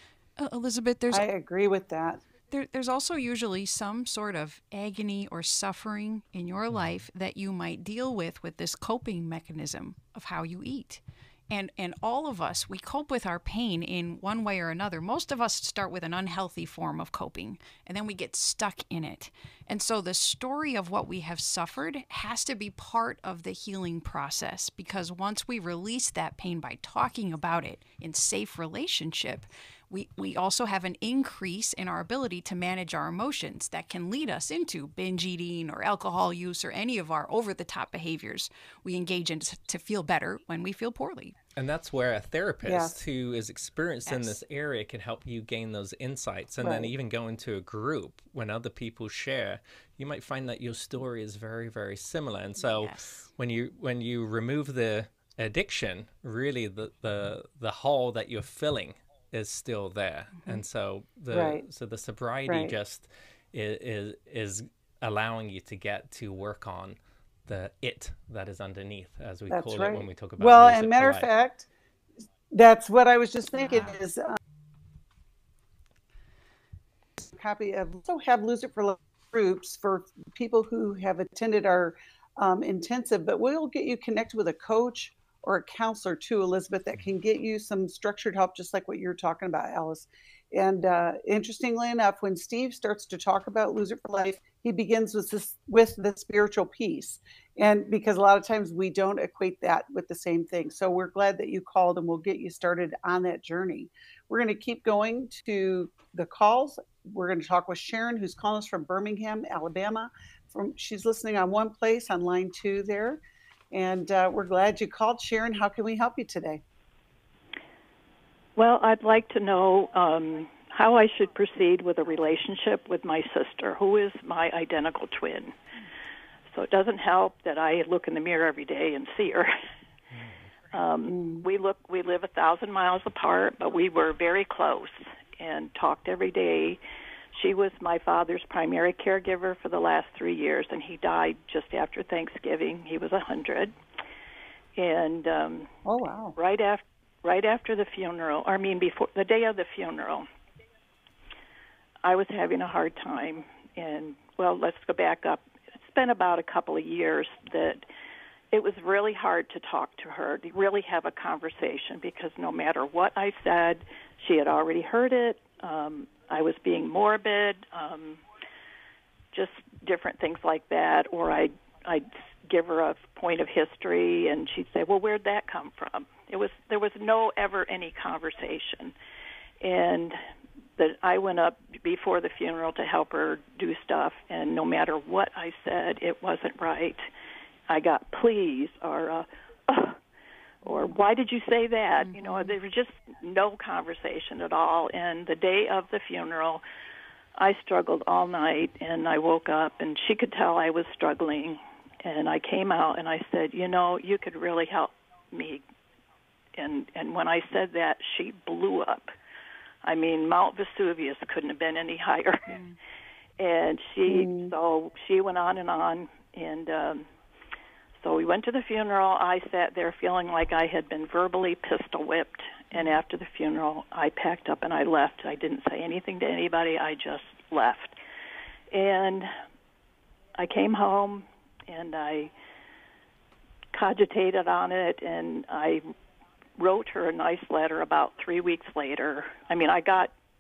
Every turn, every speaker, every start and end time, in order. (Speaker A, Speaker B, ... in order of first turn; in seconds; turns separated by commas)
Speaker A: 0.4-1.3, Speaker B: 1.1-2.2, Speaker A: 2.5-41.3, Speaker C: 41.5-71.3, Speaker B: 42.6-43.0, Speaker A: 44.0-44.4, Speaker B: 46.6-46.9, Speaker A: 52.6-53.3, Speaker B: 61.3-61.6, Speaker B: 62.5-62.7, Speaker B: 69.5-71.7, Speaker B: 72.5-74.3, Speaker B: 77.2-113.2, Speaker B: 113.7-116.6, Speaker D: 118.5-125.5, Speaker D: 126.5-129.5, Speaker D: 130.7-136.8, Speaker B: 131.1-131.4, Speaker D: 137.3-143.7, Speaker D: 144.8-145.7, Speaker B: 145.8-146.3, Speaker D: 146.3-150.3, Speaker D: 152.0-157.8, Speaker D: 158.5-168.2, Speaker D: 169.3-178.9, Speaker D: 179.6-180.2, Speaker D: 180.8-187.1, Speaker D: 187.7-190.0, Speaker D: 190.6-196.6, Speaker A: 192.0-192.5, Speaker D: 197.4-205.6, Speaker D: 206.6-209.1, Speaker D: 209.8-212.5, Speaker A: 212.5-212.8, Speaker D: 213.4-217.1, Speaker B: 214.1-214.5, Speaker D: 218.0-227.9, Speaker D: 228.7-229.3, Speaker D: 230.4-232.3, Speaker D: 233.7-235.9, Speaker D: 236.6-240.1